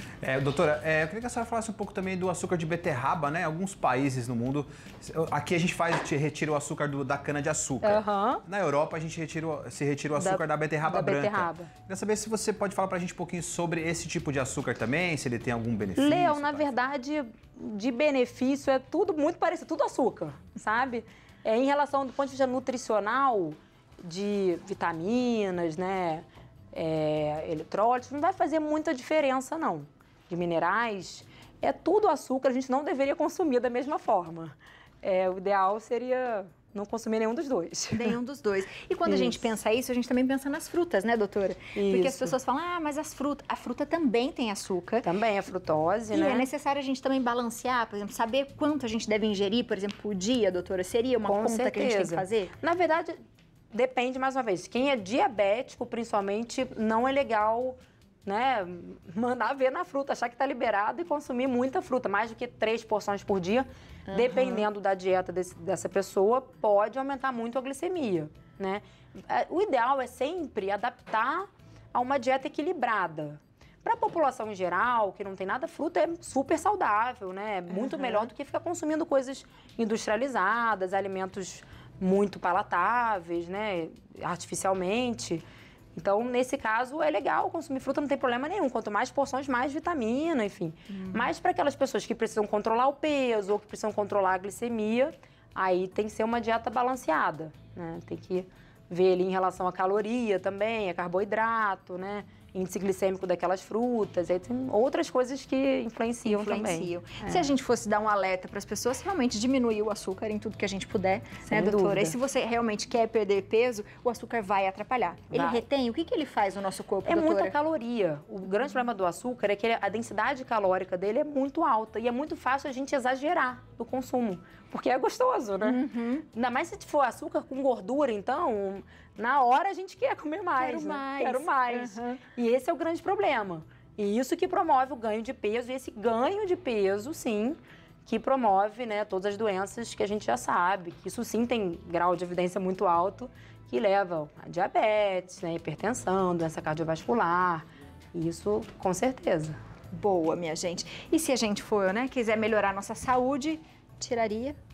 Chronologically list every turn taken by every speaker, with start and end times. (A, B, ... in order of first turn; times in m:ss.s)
0:00.2-0:16.6 A
0:07.8-0:08.4 B
0:10.2-0:11.7 B
0:16.0-0:38.2 B
0:37.9-0:45.1 C
0:39.0-0:39.5 B
0:41.7-0:42.3 B
0:45.0-0:46.5 B
0:46.1-0:52.5 C
0:51.2-0:53.2 B
0:53.7-1:25.4 B
1:04.1-1:04.7 C
1:17.7-1:18.3 C
1:26.0-1:47.5 B
1:30.9-1:31.3 C
1:46.2-1:57.5 C
1:51.4-1:52.2 B
1:55.3-1:55.6 B
1:57.0-2:29.5 B
2:05.6-2:06.2 C
2:10.6-2:12.2 C
2:29.9-2:34.6 C